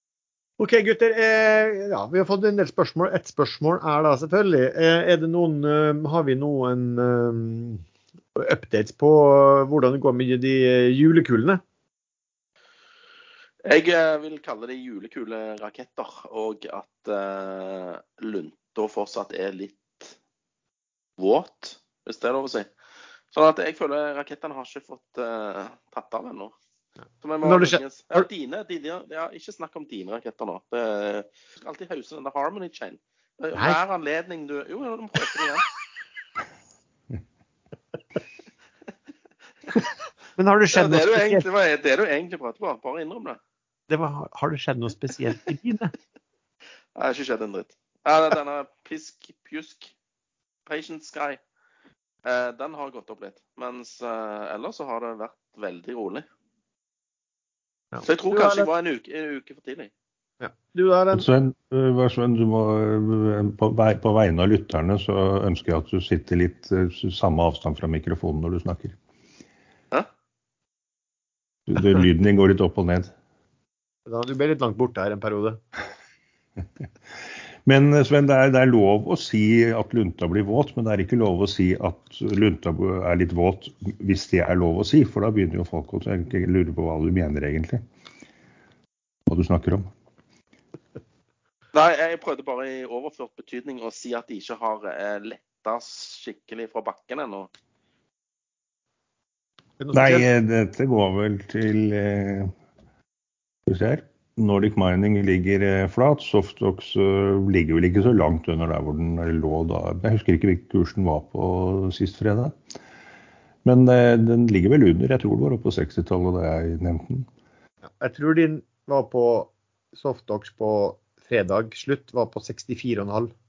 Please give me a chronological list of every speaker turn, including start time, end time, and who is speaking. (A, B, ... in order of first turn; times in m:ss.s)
0:00.6-0:07.8 A
0:08.4-0:11.6 A
0:13.6-0:20.1 B
0:21.2-0:22.7 B
0:23.3-0:26.5 B
0:27.2-0:35.7 B
0:27.4-0:28.2 A
0:40.4-0:41.4 A
0:40.7-0:43.4 B
0:43.9-0:45.9 A
0:47.0-0:49.9 B
0:50.6-0:51.4 B
0:52.2-0:56.2 B
0:57.9-0:58.7 A
0:58.0-0:59.9 B
1:00.4-1:01.3 A
1:01.1-1:09.0 C
1:11.7-1:13.1 C
1:14.1-1:15.6 A
1:17.6-1:27.8 C
1:29.3-1:29.9 C
1:31.7-1:37.5 B
1:39.8-1:40.3 A
1:39.9-1:42.5 C
1:43.7-1:52.5 C
1:53.6-1:57.3 C
1:58.0-2:03.3 A